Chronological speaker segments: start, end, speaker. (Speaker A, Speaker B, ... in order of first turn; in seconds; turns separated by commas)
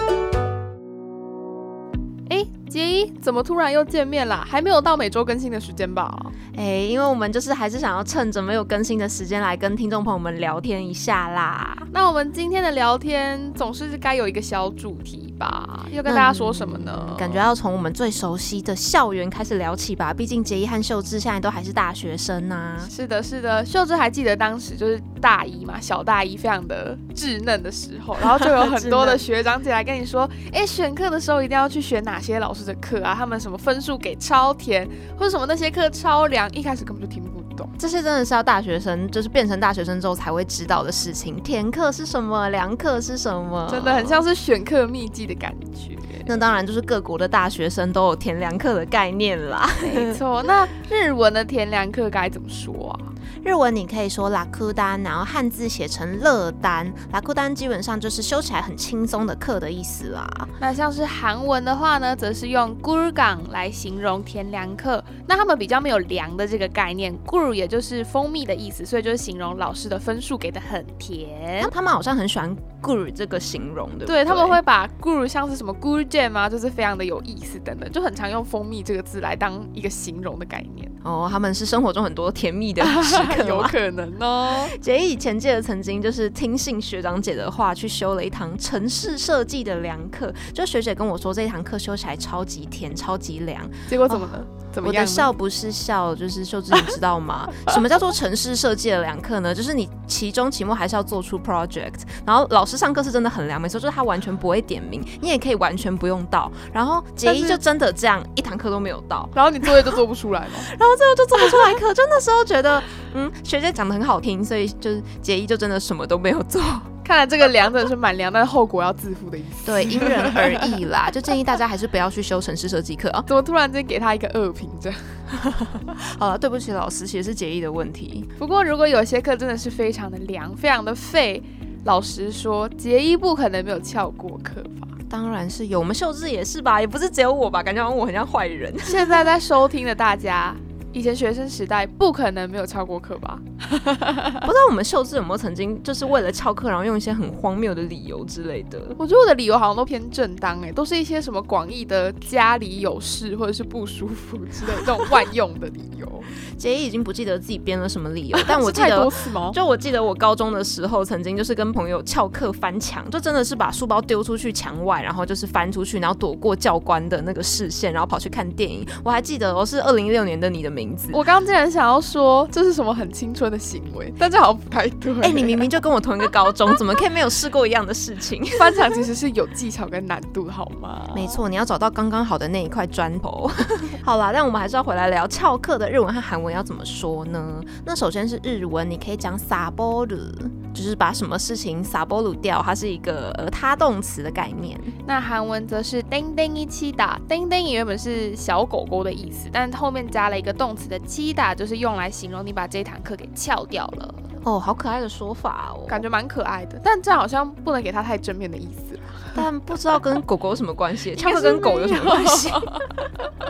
Speaker A: 2.3-6.3, Speaker B: 6.5-11.9, Speaker A: 11.9-17.4, Speaker B: 16.1-22.9, Speaker A: 22.8-37.7, Speaker B: 28.4-29.2, Speaker B: 37.8-44.2, Speaker A: 43.7-46.3, Speaker B: 46.3-50.2, Speaker A: 49.8-53.1, Speaker B: 53.4-60.5, Speaker A: 60.6-71.7, Speaker B: 71.6-74.6, Speaker A: 74.1-80.9, Speaker B: 81.0-83.7, Speaker A: 82.8-84.7, Speaker B: 84.7-110.0, Speaker A: 93.9-95.3, Speaker A: 107.2-107.6, Speaker A: 109.3-110.7, Speaker B: 110.7-116.9, Speaker A: 111.4-111.7, Speaker A: 117.0-120.8, Speaker B: 119.7-123.3, Speaker A: 123.3-125.1, Speaker B: 125.3-128.3, Speaker A: 128.4-134.9, Speaker B: 135.1-139.3, Speaker A: 138.8-144.5, Speaker B: 144.4-149.0, Speaker A: 149.0-156.3, Speaker B: 156.6-171.2, Speaker A: 158.4-159.6, Speaker A: 171.1-175.7, Speaker B: 175.2-179.1, Speaker A: 178.6-181.4, Speaker B: 181.1-194.9, Speaker A: 195.1-204.2, Speaker B: 204.4-206.0, Speaker A: 205.9-209.4, Speaker B: 209.4-212.8, Speaker A: 211.1-212.8